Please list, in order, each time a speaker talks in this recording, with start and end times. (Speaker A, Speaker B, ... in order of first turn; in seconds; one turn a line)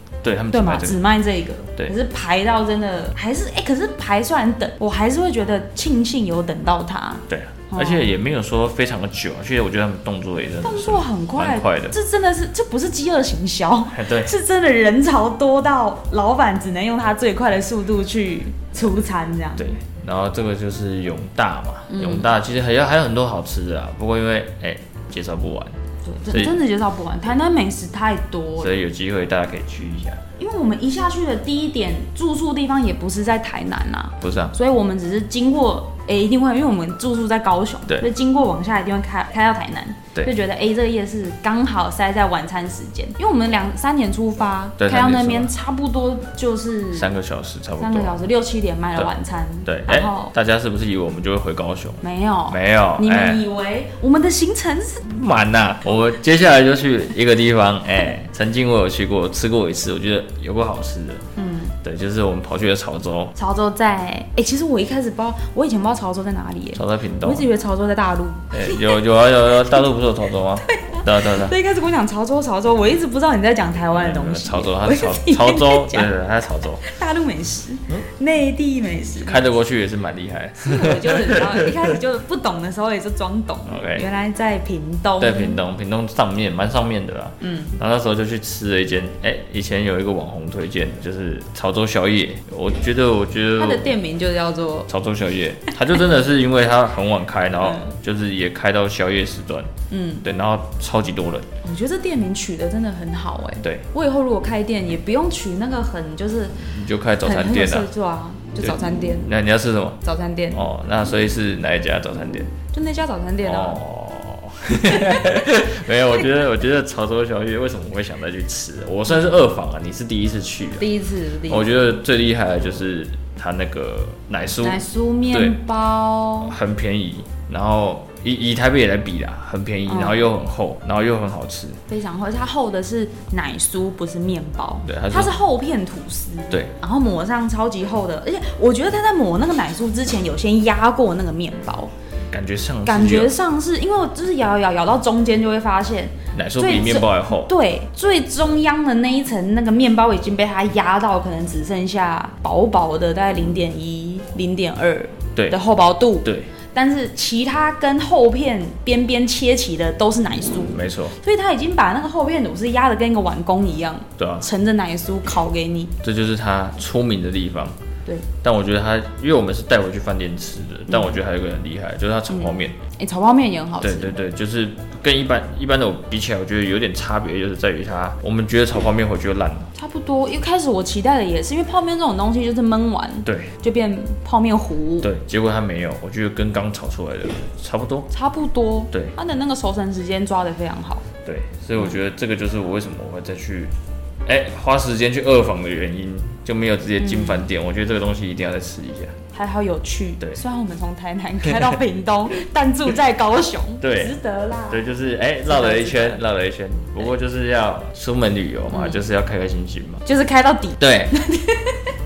Speaker A: 0.2-1.0
Speaker B: 0.5-8.1
Speaker A: 7.3-12.0
Speaker B: 10.6-19.7
Speaker A: 13.9-14.3
Speaker A: 19.6-25.8
Speaker B: 21.9-22.3
Speaker B: 26.1-28.8
Speaker A: 26.3-26.6
Speaker A: 28.6-30.2
Speaker B: 30.4-47.1
Speaker A: 34.2-34.5
Speaker A: 44.8-45.5
Speaker A: 46.9-48.2
Speaker B: 47.8-50.3
Speaker A: 49.6-53.4
Speaker B: 52.0-55.0
Speaker A: 55.0-61.3
Speaker B: 61.4-61.8
Speaker A: 61.8-63.3
Speaker B: 63.4-69.0
Speaker A: 66.7-67.5
Speaker A: 68.5-71.5
Speaker B: 70.6-76.1
Speaker A: 73.9-76.8
Speaker B: 76.8-79.4
Speaker A: 79.2-81.9
Speaker B: 80.6-85.6
Speaker A: 83.7-84.0
Speaker A: 85.2-93.9
Speaker B: 87.4-87.7
Speaker B: 93.6-94.9
Speaker A: 94.9-101.5
Speaker B: 99.9-100.2
Speaker B: 101.6-106.6
Speaker A: 106.6-107.9
Speaker B: 107.2-109.3
Speaker A: 108.6-110.0
Speaker B: 110.0-110.6
Speaker A: 110.5-112.5
Speaker B: 112.7-113.8
Speaker A: 113.4-120.9
Speaker B: 114.9-115.4
Speaker B: 120.8-121.8
Speaker A: 121.5-125.6
Speaker B: 124.6-126.6
Speaker A: 126.4-131.8
Speaker B: 129.9-130.2
Speaker B: 131.9-141.9
Speaker A: 134.8-135.3
Speaker A: 142.3-143.3
Speaker B: 142.8-165.9
Speaker A: 146.3-147.5
Speaker A: 156.2-156.5
Speaker A: 160.7-161.2
Speaker A: 164.2-164.4
Speaker A: 166.0-167.8
Speaker B: 168.1-168.3
Speaker A: 168.4-172.8
Speaker B: 172.3-174.2
Speaker A: 173.8-179.7
Speaker B: 179.8-185.1
Speaker A: 183.2-183.5
Speaker A: 185.0-188.1
Speaker B: 188.1-191.1
Speaker A: 191.2-193.7
Speaker A: 194.3-199.2
Speaker B: 197.0-197.4
Speaker B: 199.3-204.9
Speaker A: 203.8-204.2
Speaker A: 204.7-210.1
Speaker B: 205.4-206.2
Speaker B: 208.7-209.0
Speaker B: 210.1-211.8
Speaker A: 210.8-211.2